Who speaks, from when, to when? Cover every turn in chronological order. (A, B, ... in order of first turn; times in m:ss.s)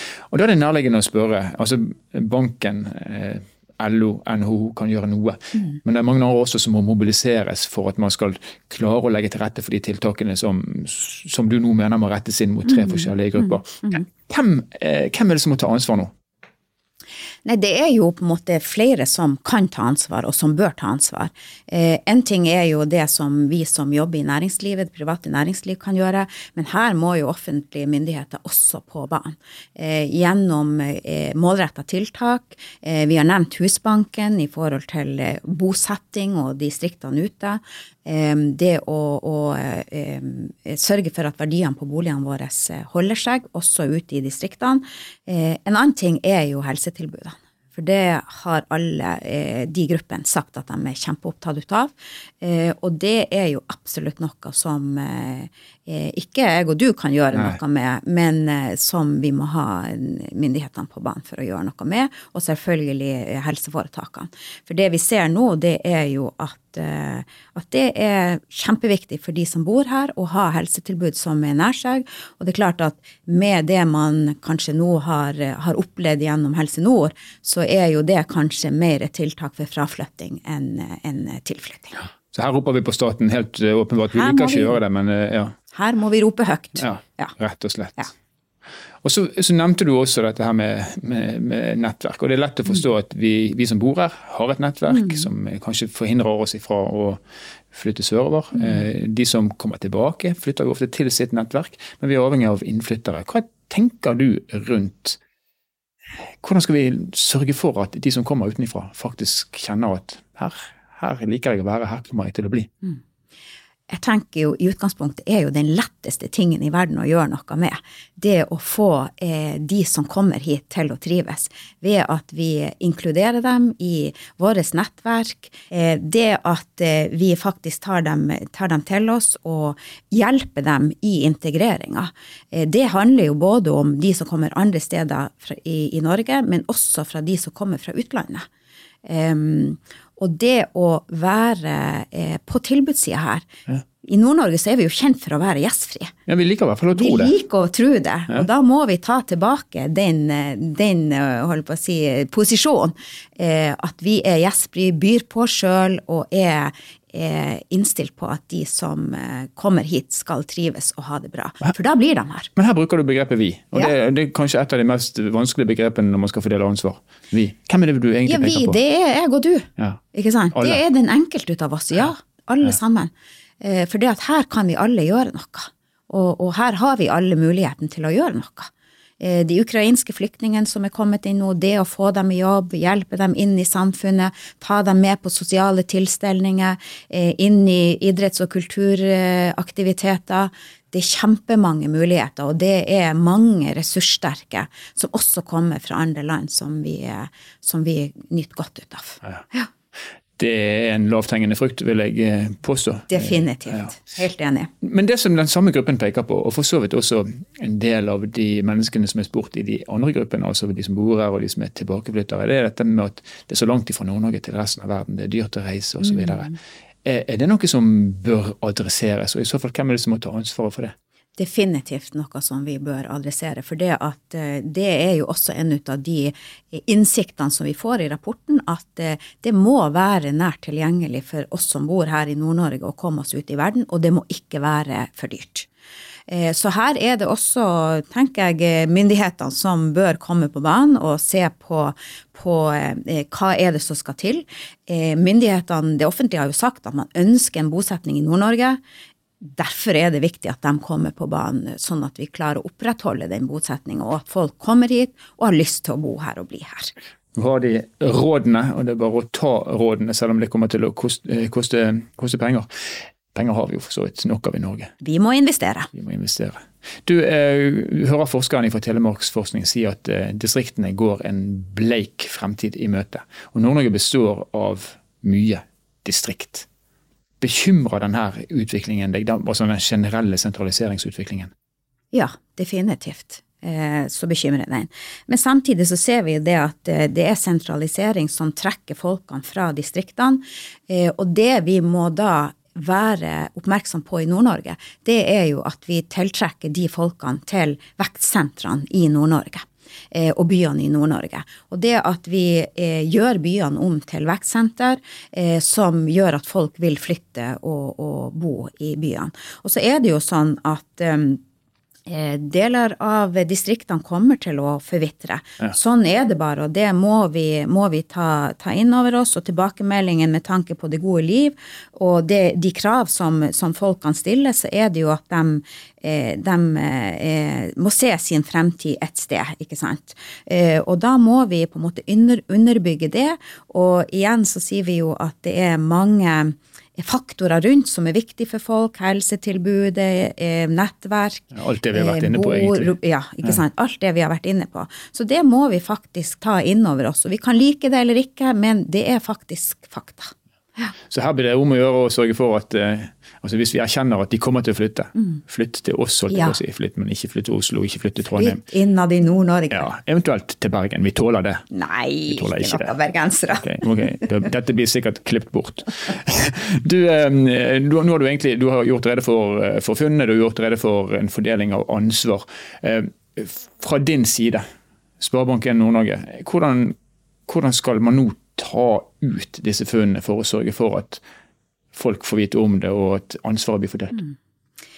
0:00.3-0:16.1 A
0:12.8-0:14.0 B
0:17.4-1:22.0 B
0:57.3-0:57.6 A
1:22.3-1:25.6 A
1:24.1-1:24.8 B
1:25.7-1:27.3 B
1:26.8-1:28.1 A
1:29.0-1:45.2 A
1:34.9-1:35.3 B
1:46.4-1:52.7 A
1:53.9-2:18.5 B
2:19.0-2:23.5 B
2:24.0-2:26.1 B
2:26.3-2:27.4 A
2:26.9-2:42.5 B
2:42.6-2:48.8 A
2:48.3-3:19.7 B
2:50.5-2:50.8 A
3:20.4-3:23.9 A
3:23.1-3:24.7 B
3:24.8-3:41.0 A
3:36.0-3:36.6 B
3:41.4-3:55.7 B
3:56.3-4:08.8 B
4:09.4-4:16.9 B
4:17.3-4:22.7 A
4:23.3-4:24.9 A
4:25.0-4:25.9 B
4:25.9-4:36.7 A
4:37.4-4:41.5 A
4:42.1-5:11.4 B
5:12.1-5:50.9 B
5:41.5-5:42.9 A
5:51.1-5:58.6 A
5:56.3-5:56.6 B
5:58.4-5:59.9 B
5:59.7-6:01.6 A
6:01.7-6:04.2 B
6:02.3-6:02.9 A
6:03.6-6:14.6 A
6:15.2-6:17.0 A
6:17.5-6:21.2 A
6:21.9-6:24.2 A